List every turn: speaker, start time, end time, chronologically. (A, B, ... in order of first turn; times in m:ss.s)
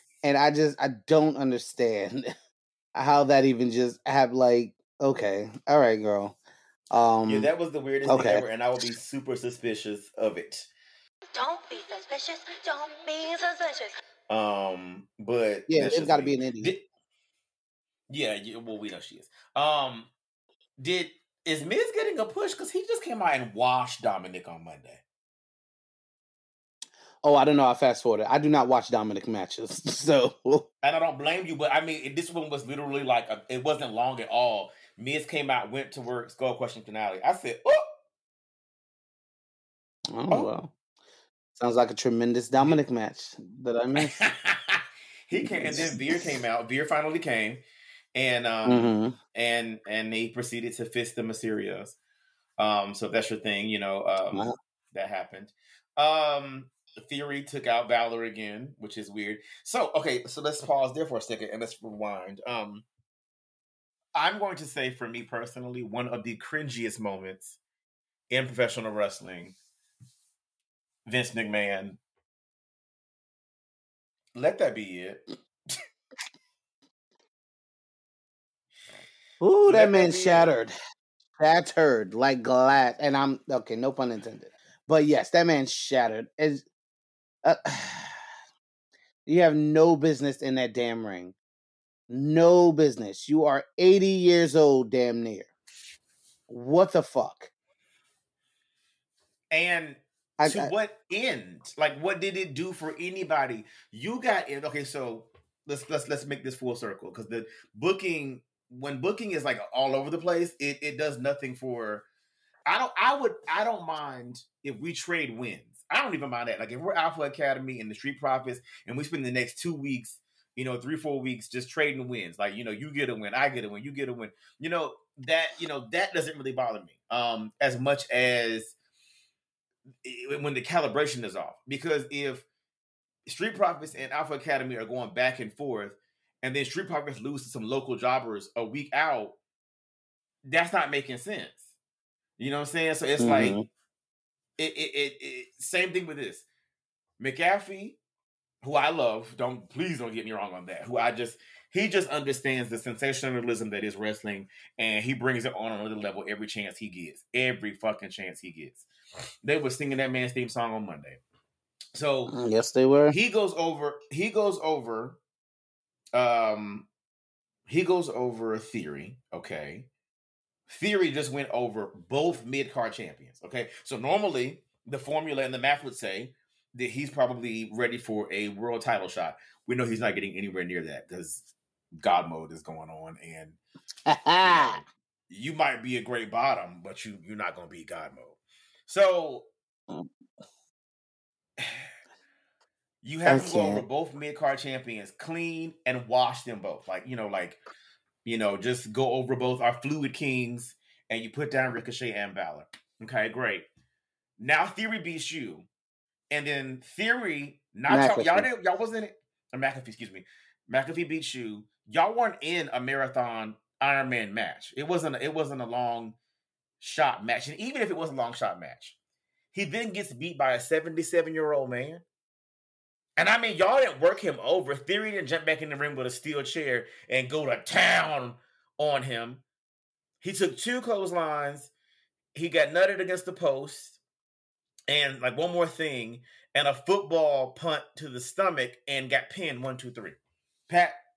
0:00.2-0:02.3 A
0:02.9-0:06.4 A
0:06.9-0:07.5 A
0:07.3-0:10.7 B
0:08.1-0:08.4 A
0:11.3-0:14.0 C
0:14.3-0:16.8 B
0:15.7-0:16.7 A
0:18.1-0:20.1 B
0:20.8-0:25.0 B
0:27.2-0:30.6 A
0:30.8-0:37.8 B
0:40.1-0:40.7 A
0:41.5-0:44.2 A
0:44.1-0:47.6 B
0:45.4-0:46.2 A
0:48.1-0:52.0 B
0:48.6-0:49.2 A
0:52.6-1:02.8 B
1:04.1-1:07.6 B
1:08.3-1:09.6 B
1:11.0-1:12.0 B
1:14.3-1:15.2 B
1:19.4-1:20.7 A
1:19.7-1:20.5 B
1:21.4-1:26.6 A
1:27.4-1:28.2 A
1:29.2-1:31.4 A
1:32.1-1:35.5 A
1:36.5-1:37.5 A
1:39.5-1:52.0 B
1:40.4-1:40.7 A
1:52.6-2:08.7 B
2:10.0-2:12.4 B
2:13.2-2:19.4 B
2:20.5-2:21.6 B
2:22.4-2:23.6 B
2:23.2-2:23.7 A
2:24.6-2:26.4 B
2:27.2-2:28.0 B
2:28.6-2:38.8 B
2:39.4-2:41.2 B
2:41.9-2:42.4 B
2:42.3-2:43.2 A
2:43.1-2:45.2 B
2:46.1-2:46.9 B
2:47.7-2:49.9 B
2:50.7-3:03.6 B
3:04.1-3:04.8 A
3:04.4-3:09.5 B
3:11.6-3:11.9 B
3:13.0-3:17.6 B
3:13.2-3:13.8 A
3:18.2-3:23.6 B
3:24.4-3:25.7 B
3:26.3-3:36.2 B
3:27.9-3:28.5 A
3:36.8-3:39.0 B
3:39.5-3:42.0 B
3:43.2-3:49.4 B
3:50.2-3:51.7 B
3:52.3-3:54.0 B
3:54.9-4:00.2 B
4:00.7-4:01.0 B